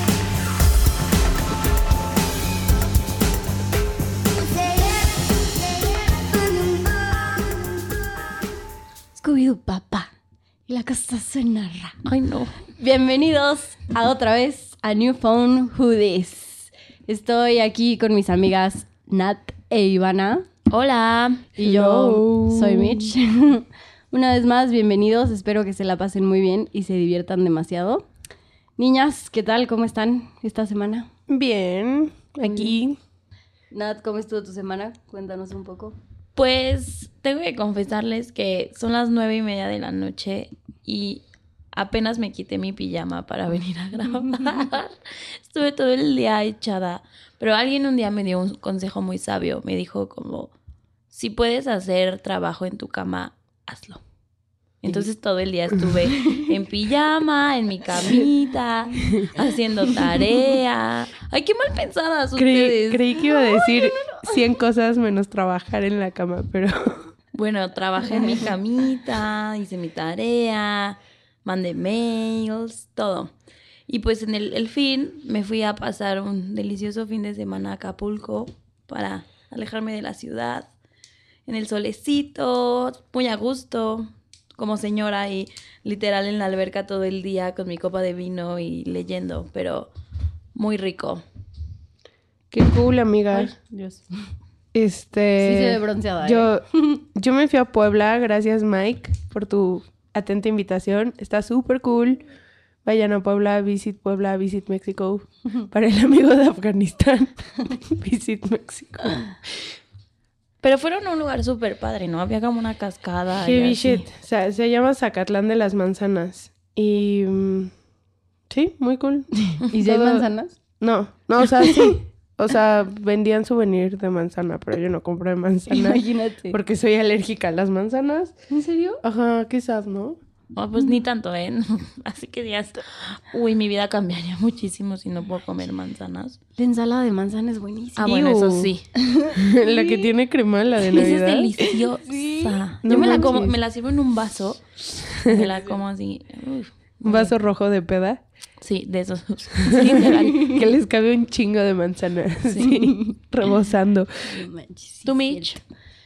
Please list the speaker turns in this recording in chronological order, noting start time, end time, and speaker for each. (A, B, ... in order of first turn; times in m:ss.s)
0:09.2-0:10.1 A
0:10.7-0:12.0 A
0:12.0-0:12.6 B
0:12.7-0:20.5 A
0:20.7-0:21.5 B
0:21.6-0:28.1 A
0:21.6-0:23.1 C
0:28.8-0:31.1 A
0:31.3-0:33.0 C
0:32.5-0:32.8 A
0:33.7-0:36.0 A
0:36.4-0:50.5 B
0:51.1-0:54.0 B
0:54.8-1:03.1 B
1:02.4-1:07.1 C
1:03.2-1:04.4 A
1:07.3-1:13.3 B
1:13.9-1:20.7 B
1:21.5-1:29.9 B
1:30.6-1:31.2 B
1:32.5-1:33.5 C
1:33.3-1:34.0 A
1:34.7-1:42.2 C
1:35.4-1:37.0 A
1:42.8-1:49.6 C
1:50.6-1:54.1 B
1:53.4-1:57.7 C
1:58.5-2:00.3 C
1:59.4-2:00.6 A
2:00.8-2:08.4 C
2:01.6-2:01.9 A
2:05.7-2:06.6 A
2:08.5-2:09.0 A
2:09.0-2:10.2 C
2:10.5-2:16.4 B
2:16.6-2:18.2 A
2:18.0-2:18.9 B
2:18.0-2:18.7 C
2:19.0-2:20.1 A
2:19.4-2:21.5 C
2:20.9-2:27.3 B
2:21.6-2:23.5 A
2:22.8-2:23.5 C
2:25.2-2:25.5 C
2:27.0-2:28.2 C
2:28.6-2:30.6 B
2:29.6-2:34.1 C
2:30.0-2:30.6 A
2:32.5-2:33.2 A
2:34.3-2:35.5 A
2:35.0-2:35.6 B